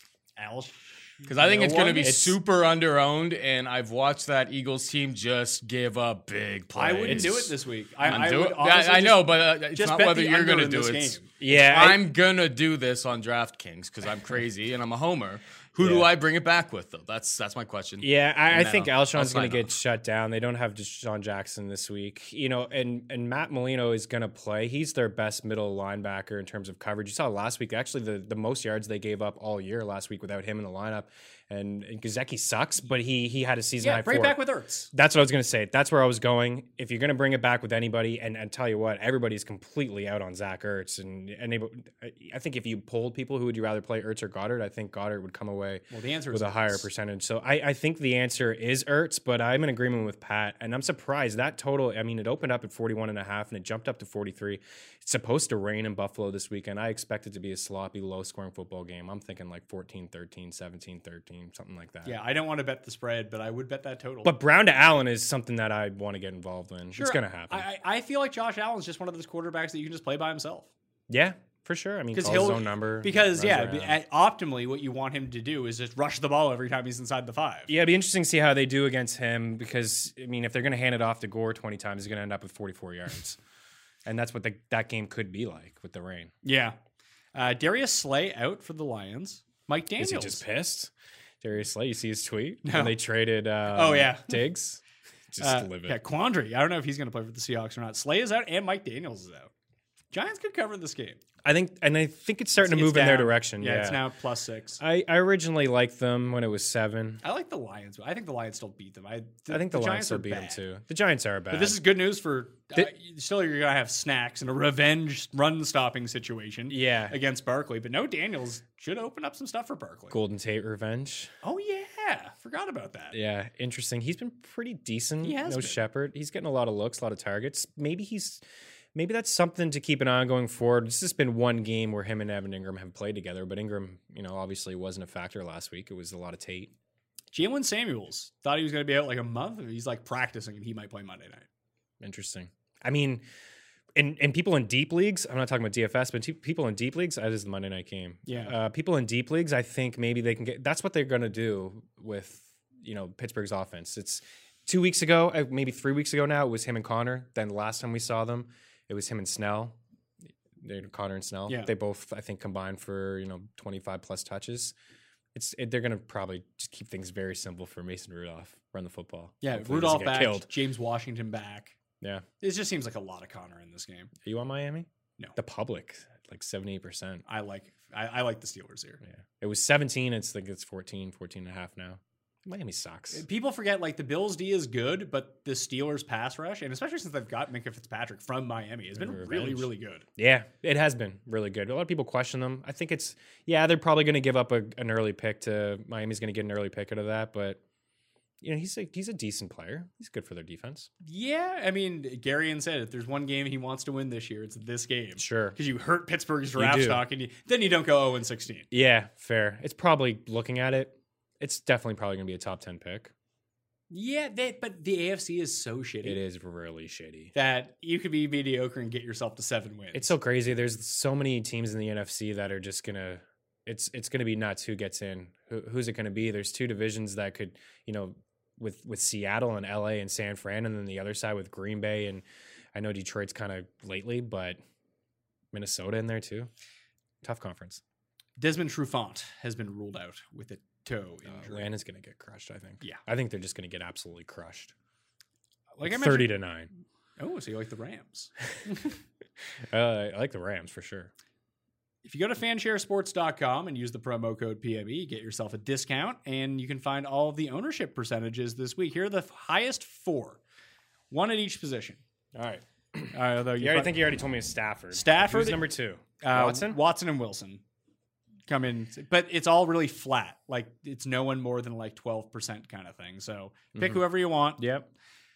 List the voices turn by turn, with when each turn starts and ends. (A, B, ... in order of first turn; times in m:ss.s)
0:00.4-0:02.2 A
0:01.2-0:19.7 B
0:02.0-0:02.4 C
0:06.7-0:11.3 A
0:11.4-0:12.0 C
0:15.8-0:16.1 C
0:18.0-0:34.4 C
0:33.8-0:34.9 A
0:34.9-1:02.2 C
0:45.9-0:46.8 A
1:02.0-1:04.3 A
1:04.2-1:07.7 C
1:07.0-1:10.7 A
1:11.1-1:14.0 C
1:12.1-1:17.7 A
1:17.7-1:23.4 C
1:24.0-1:26.3 C
1:26.4-1:26.8 A
1:27.3-1:30.4 A
1:30.0-1:34.8 C
1:32.6-1:33.0 A
1:33.7-1:34.4 A
1:35.3-1:36.0 C
1:35.4-1:39.5 A
1:40.1-1:41.2 A
1:41.4-1:44.0 C
1:42.6-1:44.8 A
1:44.8-1:47.2 C
1:47.2-1:50.6 A
1:49.5-1:51.8 C
1:51.5-2:00.2 A
1:56.7-1:57.2 C
2:00.1-2:01.3 C
2:01.4-2:03.2 A
2:03.1-2:08.4 C
2:05.2-2:05.8 A
2:09.0-2:16.7 C
2:17.3-2:21.5 A
2:22.0-2:23.2 C
2:24.0-2:39.8 C
2:28.3-2:28.6 A
2:40.6-2:44.7 C
2:45.3-2:50.5 C
2:49.4-2:51.8 A
2:52.0-2:52.3 C
2:52.4-2:54.1 A
2:54.2-2:57.2 C
2:57.3-2:59.0 A
2:59.0-3:03.2 C
3:03.1-3:10.1 A
3:09.0-3:17.6 C
3:18.4-3:20.9 C
3:21.0-3:28.7 A
3:25.2-3:25.6 C
3:26.6-3:27.0 C
3:28.7-3:33.1 C
3:33.9-3:36.2 A
3:36.0-3:37.3 C
3:37.3-3:40.2 A
3:39.9-3:54.6 C
3:55.5-3:56.5 C
3:57.2-3:57.8 C
3:58.4-4:01.7 A
4:01.3-4:04.7 C
4:05.8-4:06.4 A
4:05.8-4:06.7 C
4:07.2-4:08.9 A
4:09.7-4:11.1 C
4:12.0-4:20.4 A
4:21.1-4:22.0 A
4:22.3-4:26.8 C
4:23.1-4:23.9 A
4:24.9-4:25.6 A
4:26.2-4:27.6 A
4:28.5-4:34.6 A
4:33.8-4:34.0 C
4:34.6-4:34.9 C